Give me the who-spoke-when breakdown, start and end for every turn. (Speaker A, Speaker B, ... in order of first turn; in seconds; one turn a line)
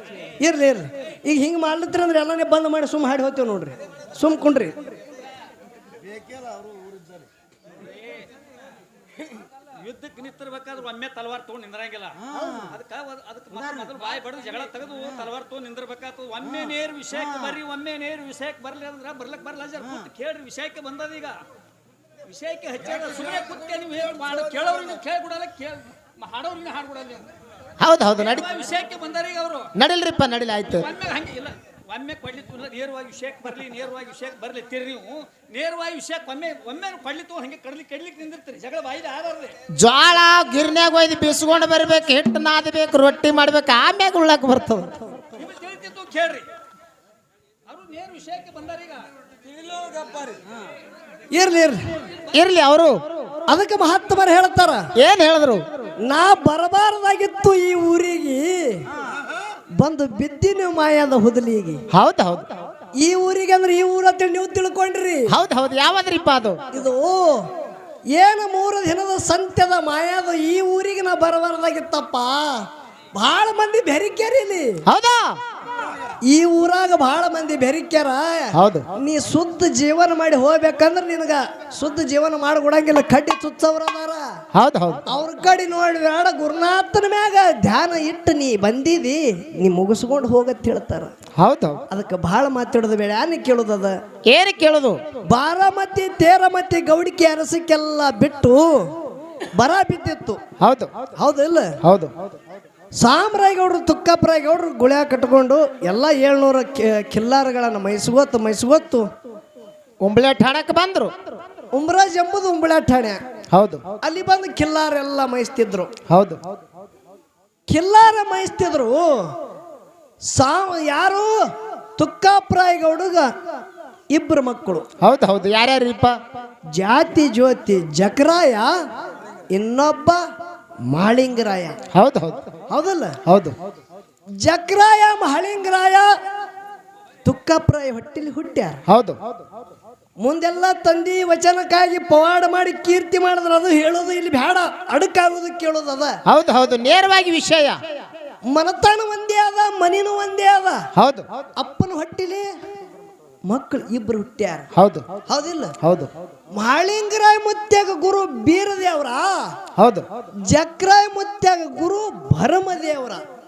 Speaker A: 0.4-4.8
Speaker B: 9.8-21.4
Speaker B: 22.2-27.3
Speaker C: 27.8-28.5
Speaker B: 28.2-29.7
Speaker C: 29.8-30.9
Speaker B: 30.8-39.5
Speaker C: 39.7-44.9
Speaker B: 45.4-46.5
Speaker B: 47.7-49.1
Speaker B: 49.6-50.4
Speaker A: 51.3-51.8
Speaker C: 52.3-53.0
Speaker A: 53.5-54.9
Speaker C: 55.0-55.7
Speaker A: 56.1-58.8
Speaker A: 59.8-61.8
Speaker C: 61.9-62.5
Speaker A: 63.0-65.3
Speaker C: 65.3-66.6
Speaker A: 66.7-67.5
Speaker A: 68.2-74.8
Speaker C: 74.9-75.3
Speaker A: 76.3-84.2
Speaker C: 78.5-78.9
Speaker C: 84.5-85.0
Speaker A: 85.1-91.1
Speaker C: 91.4-91.8
Speaker A: 91.9-93.9
Speaker C: 94.3-95.0
Speaker A: 95.3-98.8
Speaker A: 99.5-100.4
Speaker C: 100.6-100.9
Speaker A: 101.2-101.7
Speaker C: 101.8-102.1
Speaker A: 103.0-109.1
Speaker C: 110.0-111.1
Speaker A: 111.7-113.2
Speaker C: 113.5-113.8
Speaker A: 114.0-115.9
Speaker C: 116.1-116.4
Speaker A: 117.7-119.0
Speaker A: 120.2-121.4
Speaker A: 122.0-123.3
Speaker A: 124.1-124.9
Speaker C: 125.0-126.2
Speaker A: 126.7-128.7
Speaker A: 129.5-130.2
Speaker A: 130.9-131.8
Speaker C: 131.9-132.4
Speaker A: 132.7-133.2
Speaker C: 133.3-133.6
Speaker A: 134.4-136.1
Speaker A: 137.2-138.8
Speaker C: 138.9-139.2
Speaker A: 140.2-146.2
Speaker C: 146.3-147.8
Speaker A: 148.5-150.8
Speaker C: 150.9-151.3
Speaker A: 151.6-152.4
Speaker A: 153.5-154.7
Speaker C: 154.8-155.1
Speaker A: 155.3-155.7
Speaker C: 155.8-156.1
Speaker A: 156.6-159.4
Speaker C: 159.8-160.1
Speaker A: 160.5-163.2